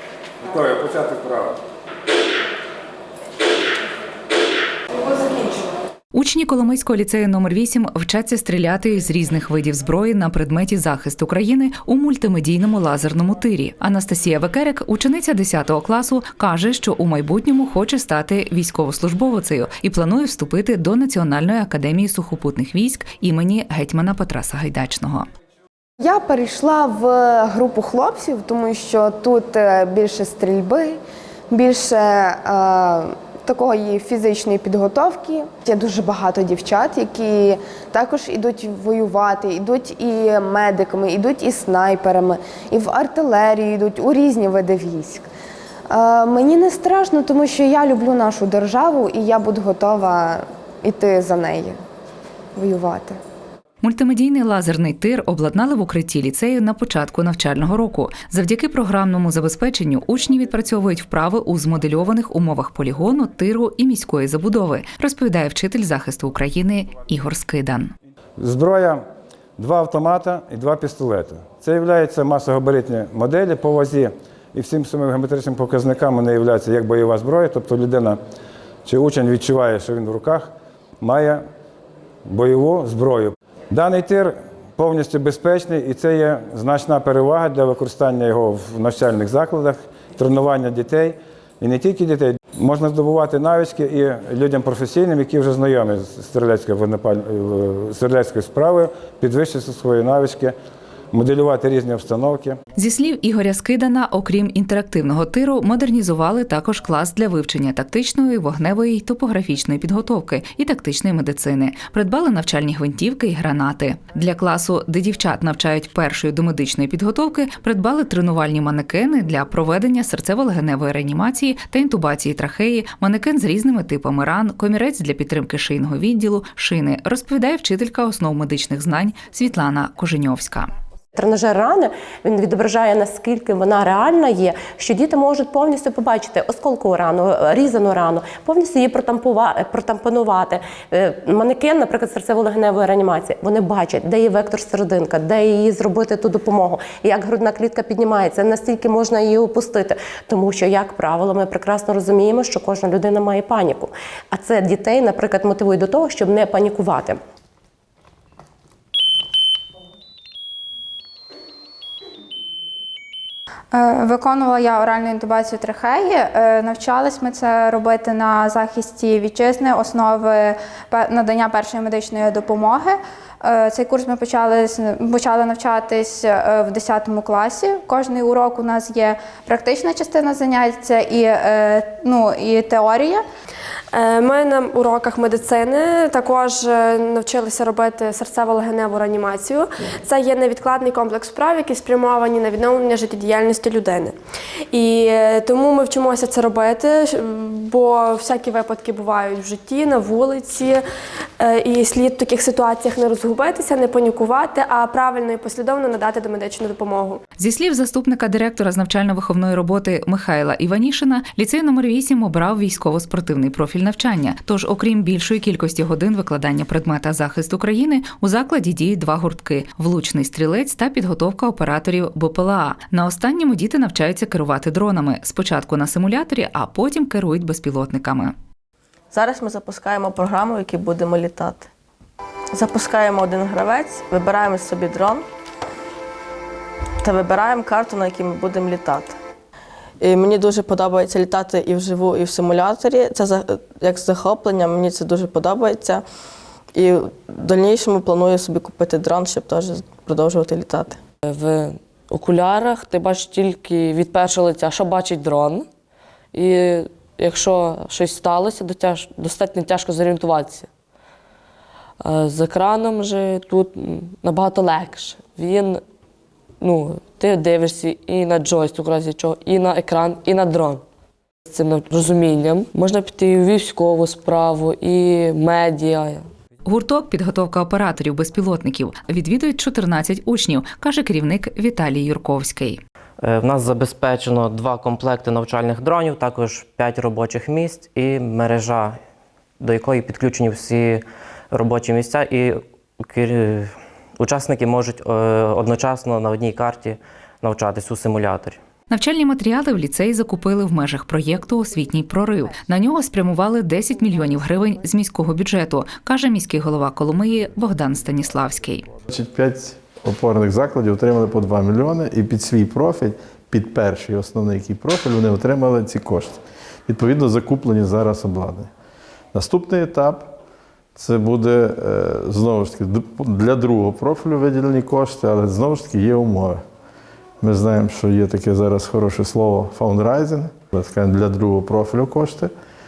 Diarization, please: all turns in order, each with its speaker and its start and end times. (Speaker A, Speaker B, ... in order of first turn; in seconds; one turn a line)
Speaker A: 0.4-1.6
Speaker B: 4.9-5.7
Speaker C: 6.1-25.2
Speaker B: 26.0-31.0
Speaker B: 31.5-45.3
Speaker B: 45.9-51.8
Speaker B: 52.5-53.2
Speaker C: 53.8-67.9
Speaker A: 68.4-69.0
Speaker A: 69.6-78.2
Speaker A: 78.8-80.5
Speaker A: 81.0-81.4
Speaker A: 82.3-100.5
Speaker A: 101.1-102.6
Speaker C: 102.8-130.7
Speaker D: 131.1-157.2
Speaker E: 163.7-183.2
Speaker F: 183.9-194.2
Speaker F: 194.7-200.8
Speaker F: 201.4-207.2
Speaker C: 207.4-228.3
Speaker G: 229.1-231.7
Speaker G: 232.5-235.2
Speaker G: 237.0-239.2
Speaker G: 240.0-246.0
Speaker G: 246.7-251.0
Speaker H: 251.2-255.7
Speaker H: 256.3-260.7
Speaker H: 262.0-265.8
Speaker H: 266.6-270.8
Speaker H: 271.5-276.3
Speaker C: 276.6-282.8
Speaker I: 283.2-289.0
Speaker I: 289.6-298.6
Speaker C: 298.9-308.9
Speaker J: 309.1-318.7
Speaker J: 319.3-320.3
Speaker J: 320.9-326.6
Speaker J: 327.4-332.5